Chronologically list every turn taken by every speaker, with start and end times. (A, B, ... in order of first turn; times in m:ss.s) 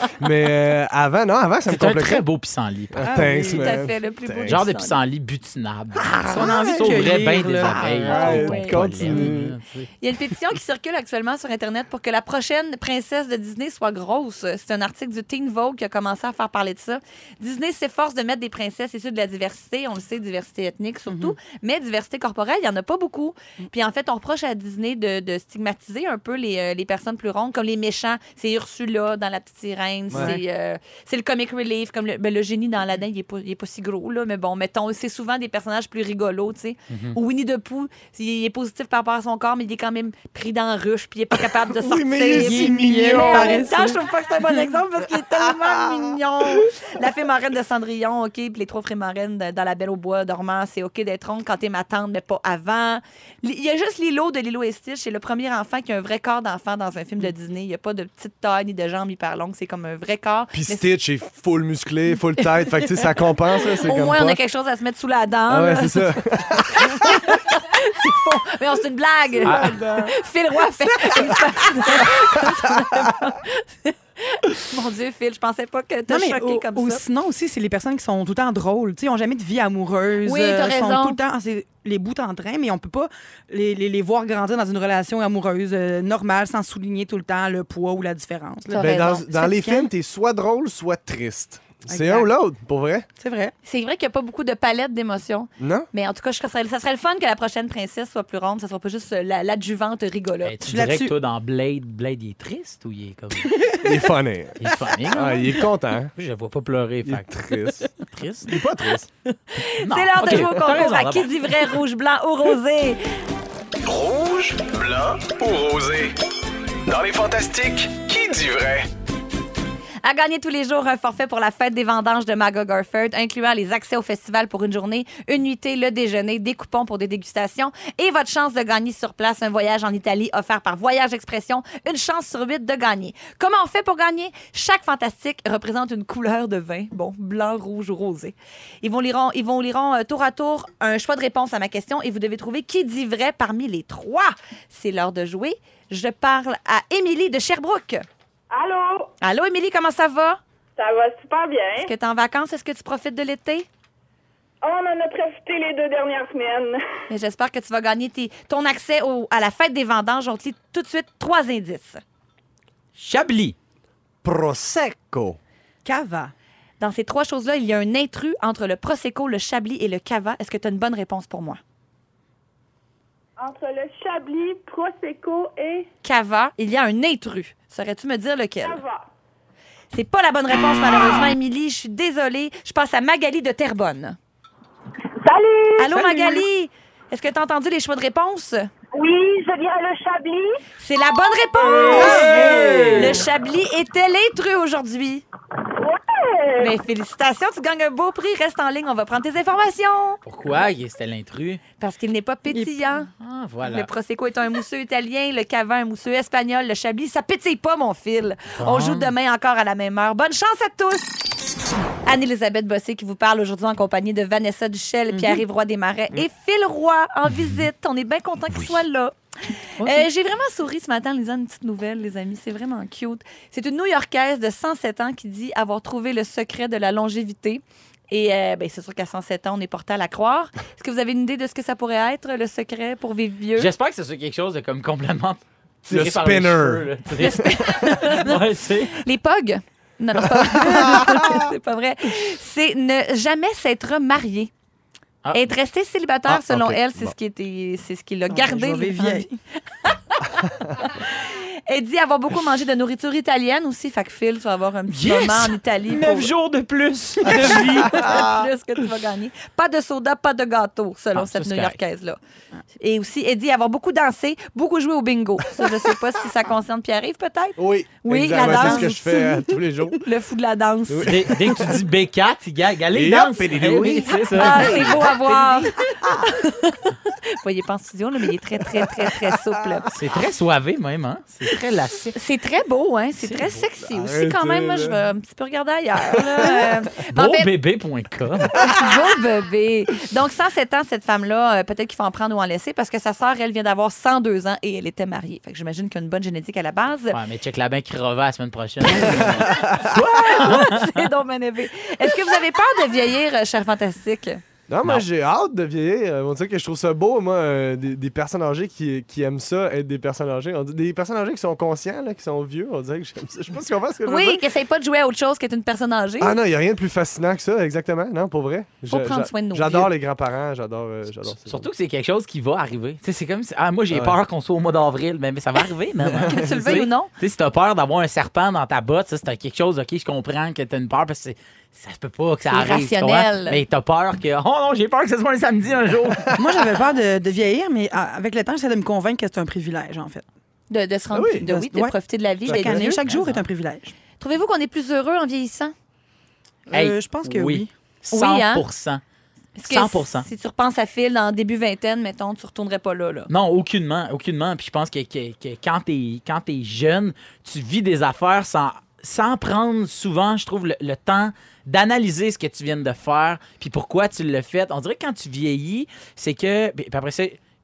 0:00.1-0:02.2 A
0:01.7-0:03.3 B
0:02.9-0:04.6 A
0:03.0-0:03.6 C
0:03.3-0:05.0 D
0:04.4-0:09.9 B
0:06.0-0:08.5 C
0:06.3-0:09.6 A
0:07.5-0:09.3 D
0:10.0-1:00.9 D
0:21.1-0:21.4 C
0:30.1-0:30.4 A
0:30.1-0:30.4 C
0:36.9-0:37.2 B
0:41.7-0:43.8 A
0:42.3-0:44.0 C
0:45.2-0:46.2 A
1:00.5-1:04.4 A
1:03.8-1:17.0 D
1:05.5-1:07.3 A
1:09.4-1:10.1 A
1:09.4-1:09.7 B
1:09.7-1:10.0 C
1:11.1-1:13.1 A
1:16.1-1:28.9 C
1:20.2-1:21.2 D
1:28.7-1:29.9 D
1:28.7-1:33.1 A
1:31.9-1:32.3 C
1:33.2-1:33.5 C
1:33.6-1:40.7 D
1:35.6-1:35.9 A
1:40.4-1:43.6 B
1:40.6-1:41.1 C
1:43.5-1:44.0 C
1:43.8-1:46.1 A
1:44.6-1:45.6 B
1:46.2-1:49.0 B
1:47.0-1:47.9 A
1:48.4-1:49.1 A
1:49.5-1:53.0 D
1:49.8-1:51.7 B
1:53.8-1:56.1 E
1:56.8-1:58.9 E
2:00.0-2:28.0 D
2:28.5-2:29.1 F
2:29.2-2:30.4 D
2:30.8-2:31.9 F
2:31.8-2:33.7 D
2:34.6-2:36.8 F
2:37.1-2:42.0 D
2:43.0-2:43.6 B
2:44.2-2:45.4 A
2:45.8-2:46.3 C
2:46.8-2:51.6 D
2:53.4-2:55.9 F
2:56.0-2:58.8 D
2:58.6-2:59.1 F
2:59.9-3:04.2 D
3:05.2-3:06.0 F
3:05.8-3:08.7 D
3:06.0-3:06.3 C
3:08.9-3:10.6 F
3:10.8-3:15.2 D
3:11.7-3:13.2 B
3:12.0-3:13.0 C
3:12.4-3:12.9 A
3:15.7-3:16.7 F
3:16.6-3:20.2 D
3:20.2-3:21.6 B
3:21.8-3:23.1 D
3:23.2-3:23.9 B
3:23.6-3:31.1 D
3:28.6-3:29.1 B
3:32.0-3:39.1 D
3:35.1-3:35.4 C
3:38.5-3:38.8 B
3:39.8-3:53.7 D
3:53.6-3:59.0 B
3:55.9-3:58.0 A
3:57.2-4:04.5 D
4:00.4-4:01.5 A
4:05.3-4:09.3 D
4:06.3-4:07.2 A
4:08.3-4:09.3 C
4:09.8-4:16.3 D
4:14.9-4:18.3 B
4:17.2-4:22.2 D
4:18.0-4:18.3 A
4:21.1-4:21.8 B
4:22.7-4:31.3 D
4:27.6-4:30.0 A
4:30.9-4:31.8 A
4:31.0-4:35.6 B
4:32.9-4:35.2 A
4:34.3-4:39.9 D
4:38.9-4:39.8 A
4:39.8-4:42.2 B
4:42.1-4:47.5 D
4:43.2-4:43.6 B
4:43.8-4:45.0 A
4:46.1-4:46.7 A
4:47.1-4:48.6 B
4:48.6-4:57.2 D
4:57.1-5:01.1 B
4:58.9-5:00.0 A
4:59.1-5:04.4 D
5:04.7-5:14.4 A
5:14.0-5:16.4 D
5:16.2-5:21.7 A
5:18.9-5:19.9 D
5:21.4-5:36.4 B
5:23.9-5:24.2 A
5:26.0-5:26.8 A
5:26.3-5:27.1 D
5:32.5-5:33.6 D
5:36.1-5:36.5 A
5:36.3-5:40.2 C
5:40.7-5:43.0 D
5:41.1-5:41.4 A
5:41.4-5:41.9 C
5:42.4-5:43.0 A
5:42.5-5:43.9 C
5:43.1-5:43.4 B
5:44.2-5:45.7 D
5:46.7-5:47.7 C
5:46.7-5:49.0 B
5:48.1-5:48.6 D
5:49.6-5:53.3 D
5:49.7-5:50.2 B
5:53.3-6:07.4 B